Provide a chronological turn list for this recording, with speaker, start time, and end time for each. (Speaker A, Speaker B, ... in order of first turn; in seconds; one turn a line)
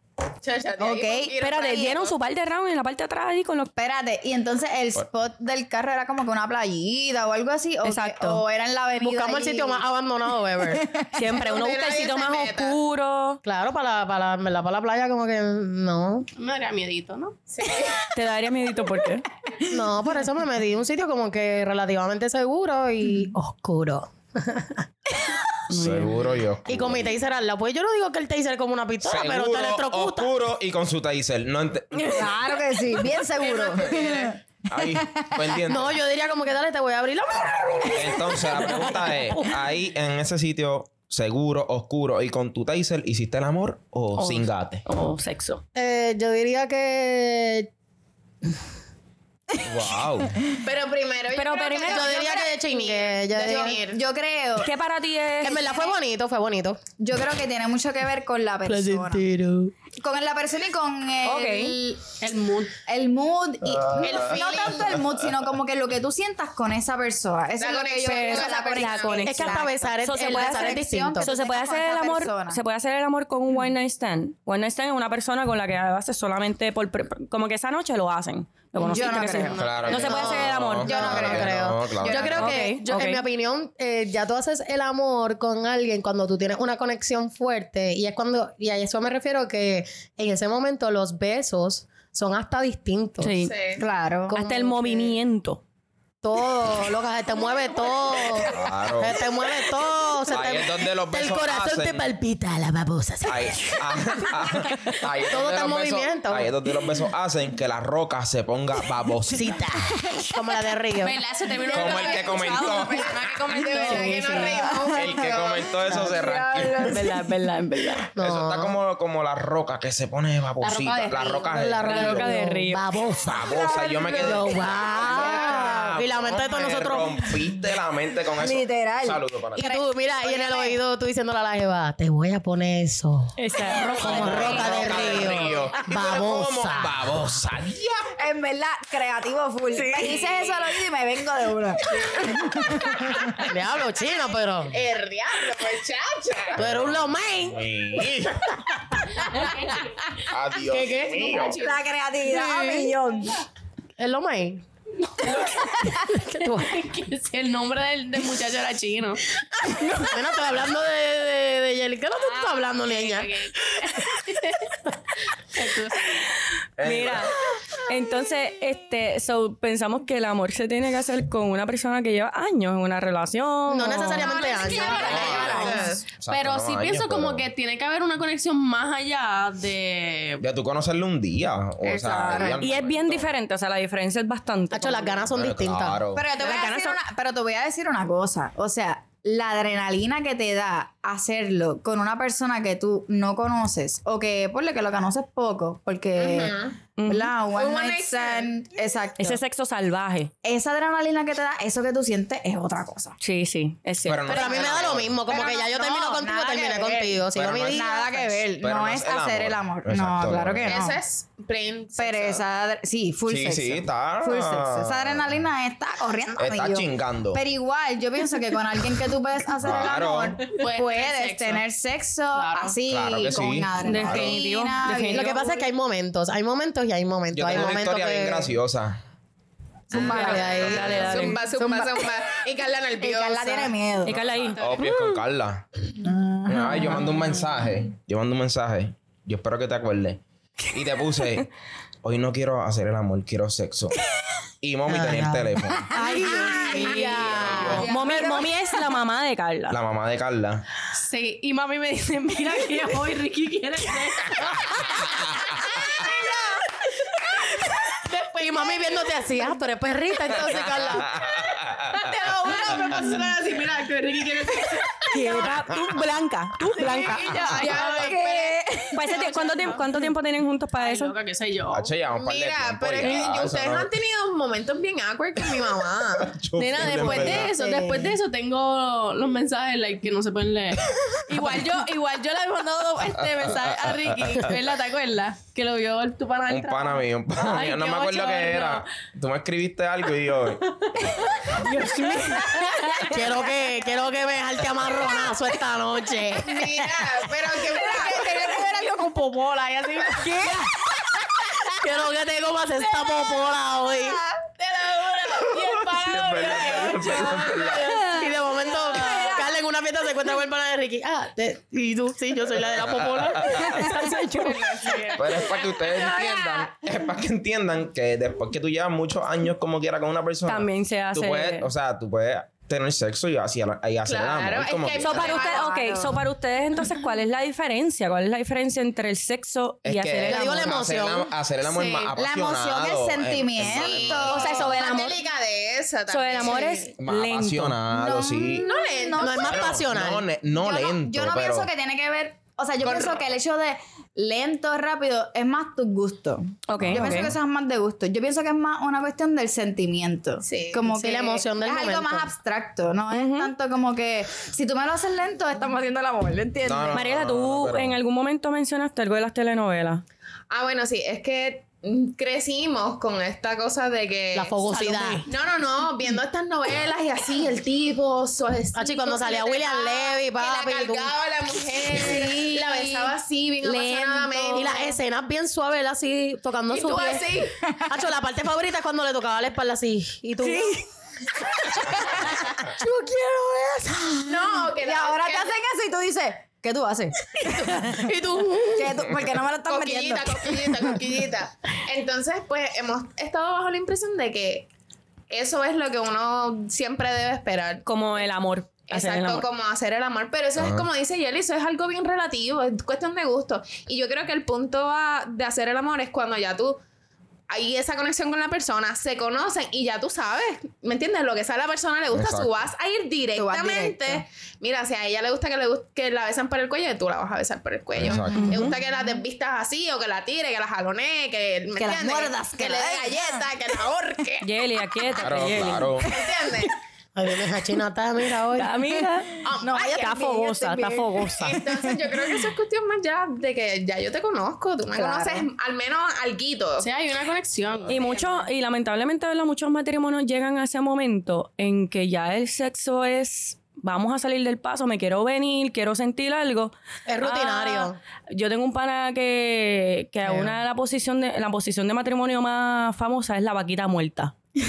Speaker A: 0.4-2.1
Speaker B: 0.8-1.4
Speaker C: 1.4-3.7
Speaker B: 3.8-9.8
Speaker C: 7.8-8.4
Speaker D: 9.0-10.8
Speaker C: 11.2-13.4
Speaker A: 11.3-12.8
Speaker D: 13.4-16.3
Speaker E: 16.4-17.5
Speaker A: 17.6-18.1
Speaker C: 18.1-19.3
Speaker D: 19.6-24.8
Speaker C: 25.7-26.2
Speaker F: 25.7-27.1
Speaker D: 26.7-30.3
Speaker F: 29.0-32.4
Speaker B: 32.0-34.4
Speaker A: 33.4-34.4
Speaker F: 34.7-36.0
Speaker D: 35.7-39.6
Speaker F: 37.9-44.8
Speaker C: 44.2-45.6
Speaker D: 45.8-47.7
Speaker F: 49.6-50.4
Speaker A: 50.6-54.0
Speaker C: 51.3-52.2
Speaker D: 51.8-53.8
Speaker B: 53.4-54.7
Speaker C: 54.6-55.6
Speaker D: 55.4-56.8
Speaker B: 57.0-59.2
Speaker D: 58.7-59.7
Speaker B: 60.0-62.2
Speaker C: 61.2-61.8
Speaker A: 62.2-62.7
Speaker B: 62.9-72.6
Speaker F: 63.7-64.2
Speaker A: 64.0-65.0
Speaker A: 67.6-69.3
Speaker C: 68.0-81.1
Speaker D: 69.3-71.3
Speaker B: 78.8-79.6
Speaker A: 79.5-80.2
Speaker F: 79.6-82.6
Speaker D: 79.8-93.4
Speaker B: 80.9-82.4
Speaker C: 82.3-83.2
Speaker C: 93.2-93.5
Speaker A: 93.4-93.8
Speaker B: 93.8-94.4
Speaker D: 94.3-95.1
Speaker C: 94.3-95.6
Speaker D: 96.2-103.8
Speaker F: 98.5-99.3
Speaker F: 100.3-102.1
Speaker F: 103.3-109.7
Speaker D: 105.2-106.5
Speaker D: 109.3-111.2
Speaker E: 111.0-114.6
Speaker A: 111.5-115.7
Speaker F: 111.7-113.2
Speaker B: 113.8-115.2
Speaker F: 114.9-117.1
Speaker B: 115.9-117.2
Speaker C: 116.9-118.1
Speaker D: 118.2-118.8
Speaker F: 118.2-122.4
Speaker A: 120.7-121.2
Speaker D: 121.4-123.4
Speaker C: 121.8-122.8
Speaker F: 123.2-129.7
Speaker B: 123.3-125.9
Speaker D: 124.1-127.4
Speaker B: 128.4-130.8
Speaker D: 129.6-133.3
Speaker C: 133.4-135.2
Speaker D: 133.9-136.9
Speaker F: 134.0-138.0
Speaker B: 134.2-134.9
Speaker A: 134.6-135.6
Speaker B: 138.2-143.4
Speaker C: 139.8-140.2
Speaker D: 143.4-144.8
Speaker A: 144.7-146.6
Speaker D: 146.6-147.7
Speaker F: 146.6-148.5
Speaker D: 148.6-149.0
Speaker A: 149.4-149.9
Speaker F: 150.3-151.6
Speaker D: 150.6-151.4
Speaker A: 151.0-151.8
Speaker B: 151.6-153.4
Speaker D: 152.3-152.9
Speaker D: 154.0-154.6
Speaker E: 155.2-155.6
Speaker B: 155.6-156.2
Speaker D: 155.9-156.8
Speaker E: 156.6-159.2
Speaker D: 160.0-163.3
Speaker E: 162.2-164.7
Speaker E: 165.6-166.1
Speaker F: 166.8-167.3
Speaker C: 166.8-174.4
Speaker D: 173.7-175.8
Speaker A: 174.2-176.0
Speaker B: 174.4-176.0
Speaker E: 174.6-175.1
Speaker F: 175.0-177.5
Speaker E: 175.7-180.4
Speaker F: 180.4-183.3
Speaker B: 181.8-182.6
Speaker C: 182.6-185.3
Speaker D: 184.7-186.0
Speaker F: 185.3-186.3
Speaker B: 186.1-199.4
Speaker C: 186.4-187.0
Speaker A: 196.2-196.8
Speaker C: 197.0-197.3
Speaker A: 197.5-198.6
Speaker C: 199.2-200.3
Speaker B: 200.4-203.2
Speaker C: 203.2-204.7
Speaker F: 204.0-205.2
Speaker D: 204.3-208.2
Speaker B: 205.3-211.0
Speaker F: 207.3-210.8
Speaker A: 210.7-212.4
Speaker B: 212.0-225.6
Speaker F: 213.3-215.4
Speaker F: 216.4-217.4
Speaker F: 219.6-220.4
Speaker A: 220.5-221.6
Speaker A: 222.4-222.8
Speaker F: 222.9-224.4
Speaker C: 223.8-225.5
Speaker D: 225.1-228.6
Speaker F: 227.3-229.0
Speaker D: 229.9-231.2
Speaker B: 229.9-232.2
Speaker F: 229.9-231.3
Speaker C: 230.6-231.4
Speaker A: 230.6-233.8
Speaker B: 233.0-234.2
Speaker C: 234.1-235.2
Speaker F: 234.2-235.7
Speaker B: 236.1-237.0
Speaker F: 236.4-241.5
Speaker F: 242.0-244.0
Speaker F: 244.6-245.9
Speaker D: 244.9-247.9
Speaker B: 245.9-248.5
Speaker C: 246.1-247.3
Speaker F: 247.1-247.9
Speaker A: 247.6-247.9
Speaker C: 247.8-249.8
Speaker F: 249.7-250.6
Speaker E: 250.9-256.6
Speaker F: 254.8-255.6
Speaker E: 257.6-259.2
Speaker D: 258.3-261.1
Speaker F: 261.0-262.2
Speaker E: 261.9-265.1
Speaker A: 264.6-265.0
Speaker C: 265.1-267.9
Speaker E: 266.6-269.9
Speaker B: 266.8-269.1
Speaker A: 267.5-268.6
Speaker C: 268.9-271.1
Speaker E: 270.8-271.9
Speaker F: 271.7-273.9
Speaker A: 272.1-276.4
Speaker E: 273.0-273.3
Speaker F: 275.5-277.5
Speaker E: 276.5-288.9
Speaker B: 277.0-278.1
Speaker F: 283.2-284.5
Speaker F: 286.5-291.6
Speaker E: 291.6-293.1
Speaker D: 293.1-297.0
Speaker A: 296.5-298.7
Speaker B: 297.6-298.9
Speaker E: 297.8-300.6
Speaker B: 300.2-300.6
Speaker D: 301.7-304.2
Speaker A: 304.6-308.2
Speaker F: 305.9-308.1
Speaker E: 306.2-308.1
Speaker D: 308.1-314.0
Speaker B: 309.0-309.3
Speaker E: 309.1-309.4
Speaker F: 312.5-313.9
Speaker C: 313.8-315.0
Speaker E: 314.4-315.3
Speaker F: 315.1-325.4
Speaker C: 320.5-321.7
Speaker A: 324.0-325.8
Speaker C: 325.0-330.8
Speaker B: 325.1-326.2
Speaker F: 329.8-334.5
Speaker D: 330.2-331.3
Speaker A: 331.6-332.1
Speaker B: 332.2-334.6
Speaker A: 333.7-336.9
Speaker C: 334.3-335.2
Speaker C: 336.1-337.8
Speaker F: 337.0-338.7
Speaker B: 337.9-339.7
Speaker A: 338.6-339.7
Speaker D: 339.2-340.3
Speaker F: 339.4-341.7
Speaker B: 340.5-357.1
Speaker A: 342.8-343.2
Speaker C: 346.7-347.3
Speaker F: 346.8-347.3
Speaker A: 350.4-350.9
Speaker D: 350.9-352.3
Speaker C: 353.1-353.5
Speaker F: 356.6-358.0
Speaker C: 356.9-360.0
Speaker A: 360.5-364.6
Speaker D: 364.3-365.2
Speaker E: 364.7-365.2
Speaker A: 365.3-374.9
Speaker D: 368.8-371.1
Speaker B: 371.9-373.2
Speaker D: 373.6-380.8
Speaker B: 374.2-374.6
Speaker A: 376.7-377.6
Speaker B: 380.4-380.8
Speaker B: 381.6-382.4
Speaker D: 381.7-384.2
Speaker A: 384.2-385.6
Speaker B: 384.8-388.0
Speaker D: 387.6-388.7
Speaker B: 388.7-391.0
Speaker A: 389.7-394.7
Speaker A: 395.3-397.8
Speaker C: 397.9-399.5
Speaker A: 398.9-406.8
Speaker F: 400.6-400.9
Speaker A: 407.5-424.5
Speaker F: 412.1-412.6
Speaker B: 413.4-414.2
Speaker F: 418.0-418.7
Speaker B: 418.1-418.6
Speaker B: 421.8-423.4
Speaker C: 424.4-426.0
Speaker F: 425.2-426.1
Speaker A: 426.0-426.7
Speaker D: 427.1-428.8
Speaker C: 428.5-431.6
Speaker A: 429.4-430.1
Speaker B: 429.6-432.1
Speaker A: 431.4-436.9
Speaker B: 434.9-435.5
Speaker E: 436.8-438.4
Speaker C: 437.9-454.4
Speaker D: 447.1-448.0
Speaker D: 450.3-450.5